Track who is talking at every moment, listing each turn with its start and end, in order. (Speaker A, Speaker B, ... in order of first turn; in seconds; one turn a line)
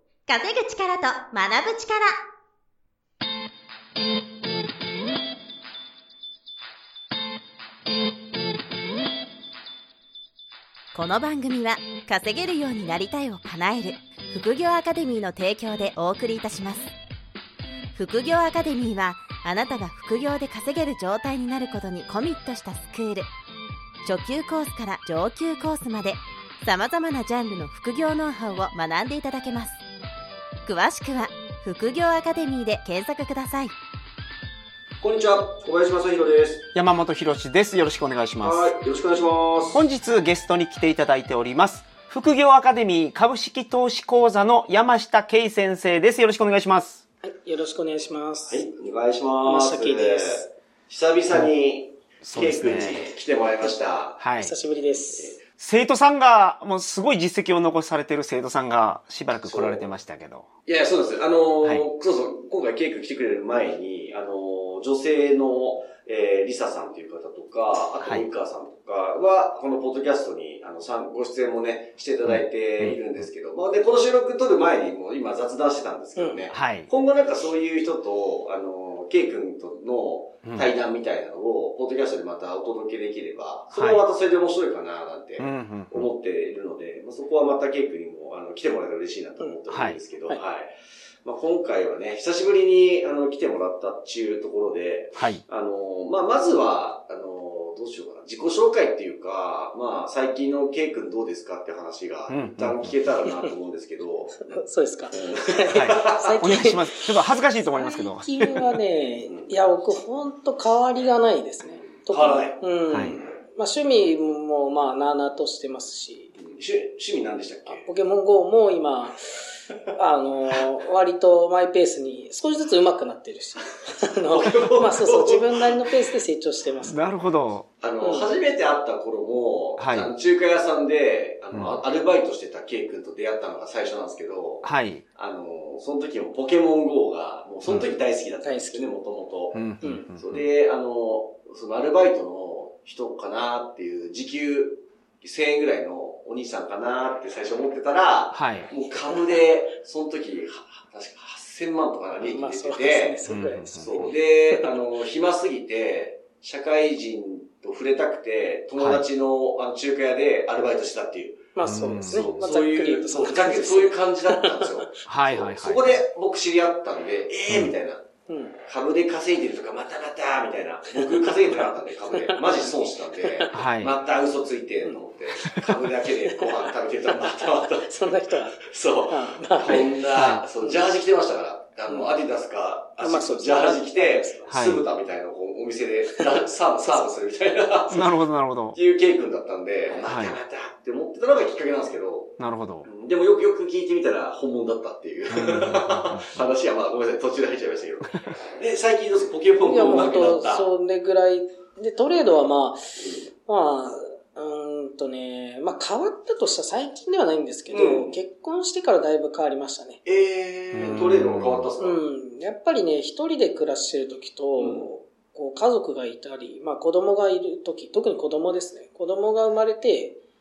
Speaker A: 0.3-2.1
Speaker A: 10.9-16.9
Speaker A: 17.9-23.3
Speaker A: 24.1-29.8
Speaker A: 30.7-33.7
Speaker B: 35.0-36.6
Speaker C: 36.7-38.7
Speaker B: 38.4-39.9
Speaker C: 39.7-47.0
Speaker D: 47.2-48.6
Speaker B: 48.5-54.2
Speaker D: 49.4-50.5
Speaker C: 52.2-53.1
Speaker C: 54.2-54.5
Speaker D: 54.4-55.4
Speaker C: 55.6-60.5
Speaker B: 59.5-59.9
Speaker B: 60.7-104.4
Speaker C: 72.3-73.0
Speaker D: 76.2-76.5
Speaker C: 76.5-76.9
Speaker C: 80.5-80.7
Speaker C: 83.7-84.1
Speaker C: 85.4-86.1
Speaker C: 89.7-90.0
Speaker C: 95.2-95.4
Speaker C: 102.3-103.0
Speaker D: 104.4-116.3
Speaker B: 105.2-106.4
Speaker C: 105.7-108.7
Speaker B: 109.3-109.5
Speaker B: 112.1-112.6
Speaker C: 112.9-113.2
Speaker B: 116.4-117.9
Speaker D: 117.7-127.0
Speaker B: 124.3-125.9
Speaker C: 126.8-127.7
Speaker B: 127.8-153.2
Speaker D: 128.0-128.3
Speaker C: 129.8-130.1
Speaker C: 131.5-131.8
Speaker C: 134.6-135.0
Speaker C: 137.7-137.9
Speaker D: 138.4-138.9
Speaker C: 139.5-140.4
Speaker D: 139.8-140.1
Speaker C: 148.3-148.7
Speaker D: 152.2-154.8
Speaker C: 153.3-154.1
Speaker B: 153.8-168.1
Speaker C: 158.8-159.0
Speaker D: 161.6-164.8
Speaker C: 161.6-162.4
Speaker C: 165.1-166.0
Speaker D: 168.3-168.6
Speaker B: 168.6-177.9
Speaker D: 172.1-173.6
Speaker C: 173.5-174.0
Speaker D: 174.8-180.0
Speaker B: 178.6-188.2
Speaker C: 180.1-180.4
Speaker D: 181.9-182.1
Speaker D: 183.0-184.5
Speaker C: 184.5-184.9
Speaker D: 186.1-187.1
Speaker C: 187.9-188.8
Speaker B: 188.7-200.7
Speaker C: 190.0-190.4
Speaker C: 192.4-192.9
Speaker C: 195.3-196.5
Speaker D: 199.6-210.0
Speaker B: 207.7-208.1
Speaker B: 210.1-212.0
Speaker C: 210.7-211.7
Speaker D: 211.8-220.2
Speaker B: 214.6-214.9